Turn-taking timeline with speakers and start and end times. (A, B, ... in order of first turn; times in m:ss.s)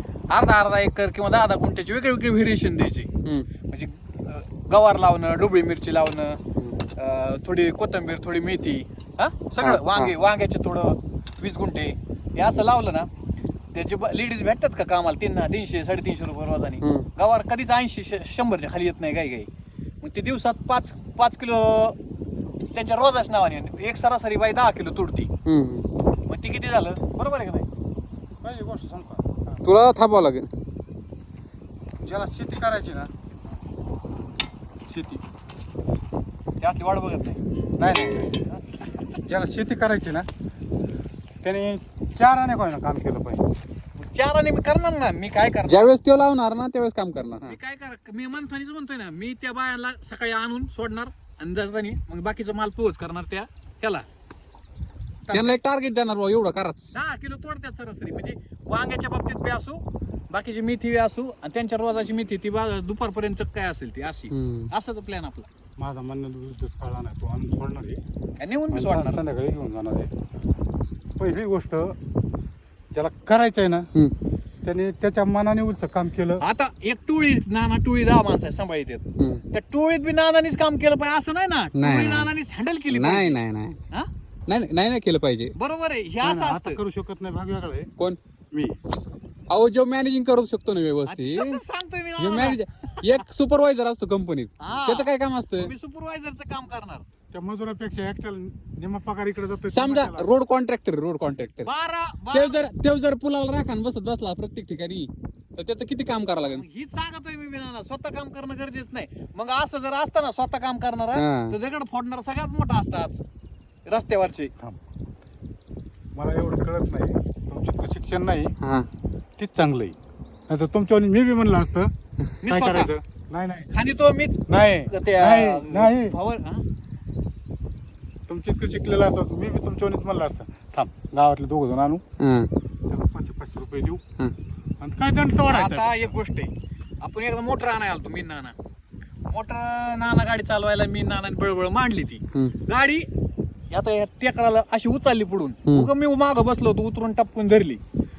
0:00.3-0:03.1 A
0:03.7-0:06.4 A
0:07.0-0:13.1 A
0:09.6-0:10.2 B
0:13.7-0:19.5 A
0:16.8-0:17.1 B
0:20.0-0:22.0 A
0:22.7-0:25.3 A
0:25.4-0:25.9 B
0:26.3-0:27.7 A
0:28.4-0:29.6 C
0:29.6-0:30.5 B
0:32.0-0:33.1 C
0:34.9-0:35.2 C
0:36.6-0:37.4 A
0:37.8-0:38.4 C
0:38.4-0:38.8 A
0:39.2-0:40.3 C
0:41.4-0:43.4 C
0:44.0-0:45.9 A
0:45.7-0:47.6 B
0:47.4-0:54.1 A
0:55.2-0:55.6 A
0:55.3-0:56.9 B
0:56.9-1:05.5 A
1:04.3-1:04.7 B
1:05.8-1:08.0 C
1:08.4-1:09.2 A
1:08.7-1:10.1 C
1:11.2-1:12.0 C
1:12.9-1:13.9 C
1:14.6-1:16.4 C
1:16.4-1:23.4 A
1:19.2-1:19.4 B
1:21.8-1:22.3 B
1:22.9-1:23.8 B
1:24.5-1:25.5 B
1:25.6-1:26.8 A
1:26.2-1:27.9 C
1:28.5-1:28.8 C
1:29.5-1:31.6 B
1:31.1-1:33.2 A
1:32.2-1:35.7 B
1:34.6-1:37.0 A
1:37.3-1:40.3 C
1:39.7-1:41.7 B
1:41.6-1:42.6 A
1:42.3-1:46.6 B
1:46.4-1:53.2 A
1:51.2-1:51.6 B
1:53.9-1:54.5 A
1:56.2-1:58.6 C
1:58.6-1:58.9 B
1:59.4-2:00.0 C
2:00.5-2:01.9 C
2:02.4-2:02.9 A
2:02.5-2:03.7 C
2:03.7-2:06.6 A
2:04.5-2:06.2 C
2:08.3-2:12.0 C
2:12.2-2:12.5 B
2:12.9-2:14.0 C
2:14.8-2:16.2 C
2:15.5-2:16.5 A
2:17.0-2:18.6 A
2:19.3-2:23.1 A
2:23.7-2:27.8 A